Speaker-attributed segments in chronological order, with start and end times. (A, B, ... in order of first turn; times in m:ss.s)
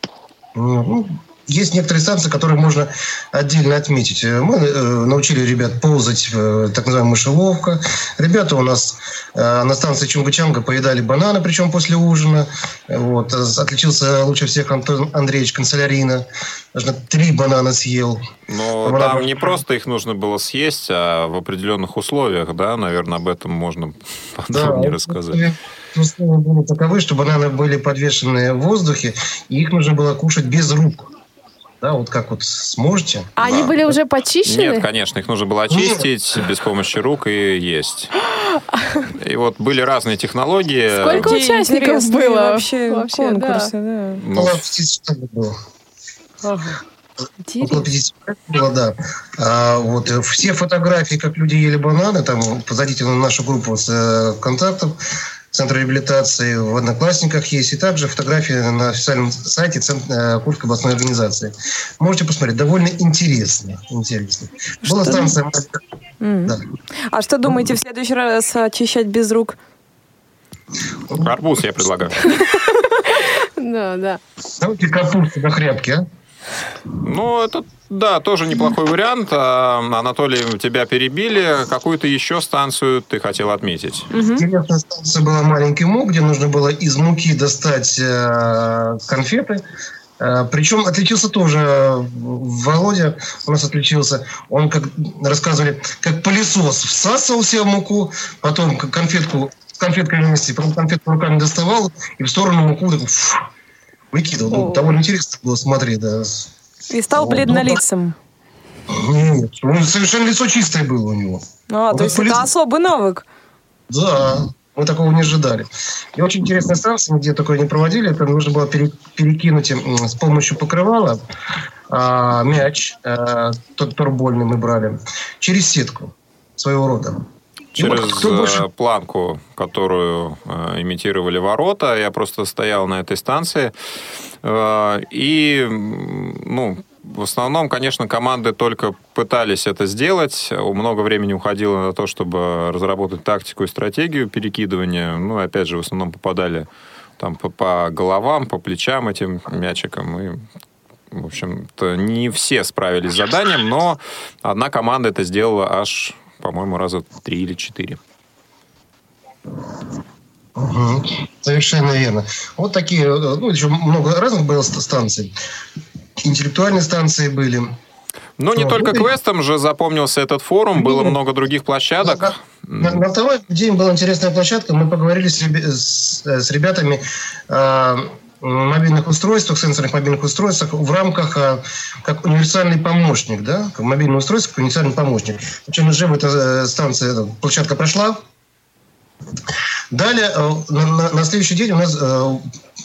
0:00.6-0:18.2 A
0:18.5-0:25.4 B
0:18.8-0:19.5 A
0:24.5-0:31.1 A
0:31.8-0:33.7 A
0:33.4-0:34.9 C
0:33.5-0:33.7 B
0:34.5-0:38.1 B
0:35.7-0:36.1 A
0:39.1-0:41.3 B
0:41.0-0:43.7 C
0:41.1-0:44.2 D
0:44.2-0:44.6 B
0:44.3-0:45.6 A
0:46.4-0:46.8 D
0:47.4-0:47.8 C
0:47.6-0:55.0 A
0:55.5-1:05.8 A
1:04.9-1:05.3 D
1:06.2-1:06.6 D
1:07.1-1:09.6 D
1:11.2-1:12.3 B
1:12.4-1:14.2 C
1:14.6-1:16.1 A
1:17.0-1:24.1 B
1:24.2-1:24.4 D
1:24.4-1:29.6 A
1:30.2-1:43.5 A
1:44.1-1:46.5 A
1:44.5-1:44.9 D
1:46.9-1:48.2 D
1:47.1-1:47.8 A
1:48.9-1:52.5 A
1:51.7-1:53.2 D
1:53.9-2:01.2 A
2:01.9-2:07.2 A
2:07.8-2:08.6 A
2:07.8-2:13.7 B
2:14.4-2:26.7 B
2:27.2-2:30.4 B
2:31.1-2:38.0 B
2:40.6-2:45.3 A
2:46.2-2:47.7 A
2:48.4-2:53.0 B
2:48.5-2:49.1 A
2:50.8-2:51.1 A
2:52.0-3:08.2 A
3:09.9-3:12.5 A